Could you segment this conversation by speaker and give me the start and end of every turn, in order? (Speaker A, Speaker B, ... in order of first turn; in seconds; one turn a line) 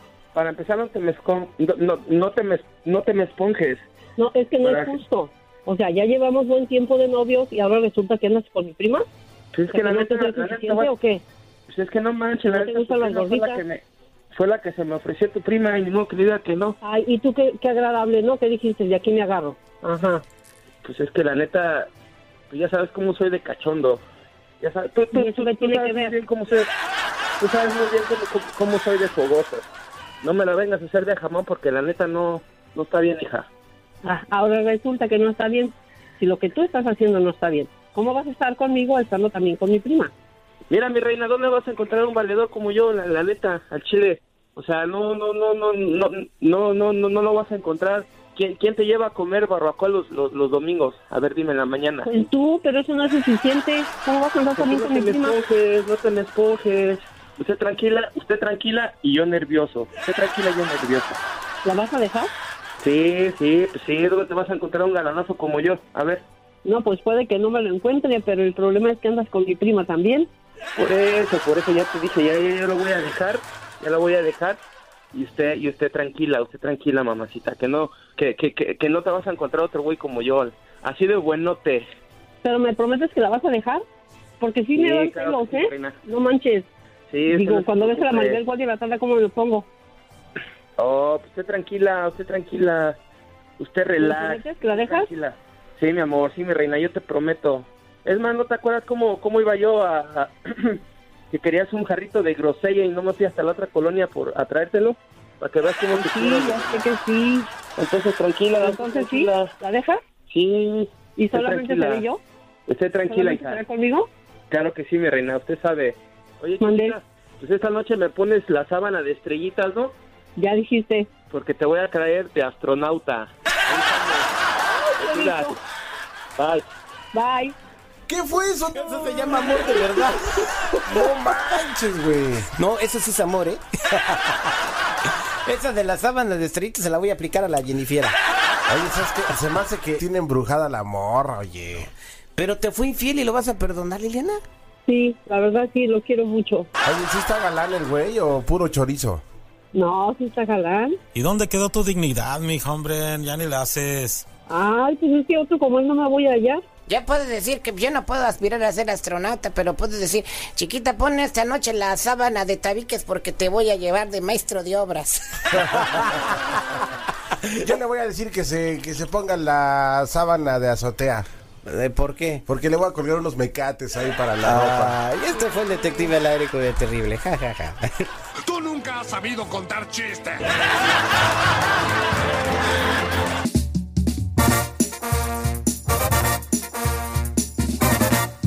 Speaker A: 0.3-3.9
Speaker B: 4.2-9.1
Speaker A: 4.6-5.0
Speaker A: 9.5-10.9
Speaker B: 9.7-11.2
Speaker A: 11.7-16.8
Speaker B: 12.5-13.6
Speaker B: 16.8-20.2
Speaker A: 20.8-21.9
Speaker A: 22.5-24.0
Speaker A: 24.6-26.7
Speaker B: 25.1-26.1
Speaker A: 27.4-29.7
Speaker A: 30.2-33.5
Speaker B: 34.0-40.1
Speaker A: 40.7-52.1
Speaker B: 52.0-55.4
Speaker A: 54.6-61.2
Speaker B: 61.6-62.3
Speaker A: 62.8-66.2
Speaker B: 66.6-70.3
Speaker A: 70.8-74.6
Speaker A: 75.1-81.8
Speaker B: 82.4-83.8
Speaker B: 84.4-86.7
Speaker A: 84.8-86.0
Speaker A: 87.1-88.4
Speaker B: 87.3-89.7
Speaker A: 90.8-93.0
Speaker A: 93.6-100.8
Speaker B: 94.0-95.1
Speaker A: 101.3-106.9
Speaker B: 105.9-107.5
Speaker A: 107.8-109.5
Speaker B: 108.6-110.0
Speaker A: 110.3-112.0
Speaker B: 111.2-112.2
Speaker A: 112.7-113.6
Speaker B: 113.1-114.1
Speaker A: 114.5-120.0
Speaker B: 116.6-117.0
Speaker B: 120.4-121.1
Speaker A: 121.3-124.3
Speaker B: 124.6-125.6
Speaker A: 125.0-125.6
Speaker A: 126.4-126.6
Speaker B: 127.1-127.5
Speaker C: 128.1-129.9
Speaker D: 128.8-130.5
Speaker C: 130.8-132.5
Speaker D: 132.6-134.4
Speaker D: 135.0-138.2
Speaker C: 138.7-141.9
Speaker D: 142.4-144.4
Speaker B: 144.9-146.7
Speaker C: 146.8-149.2
Speaker B: 149.7-151.0
Speaker E: 151.2-154.2
Speaker B: 154.5-156.6
Speaker D: 156.9-166.9
Speaker C: 165.6-166.3
Speaker C: 167.6-171.2
Speaker D: 171.7-172.4
Speaker C: 172.5-174.9
Speaker D: 174.4-178.1
Speaker F: 178.4-180.5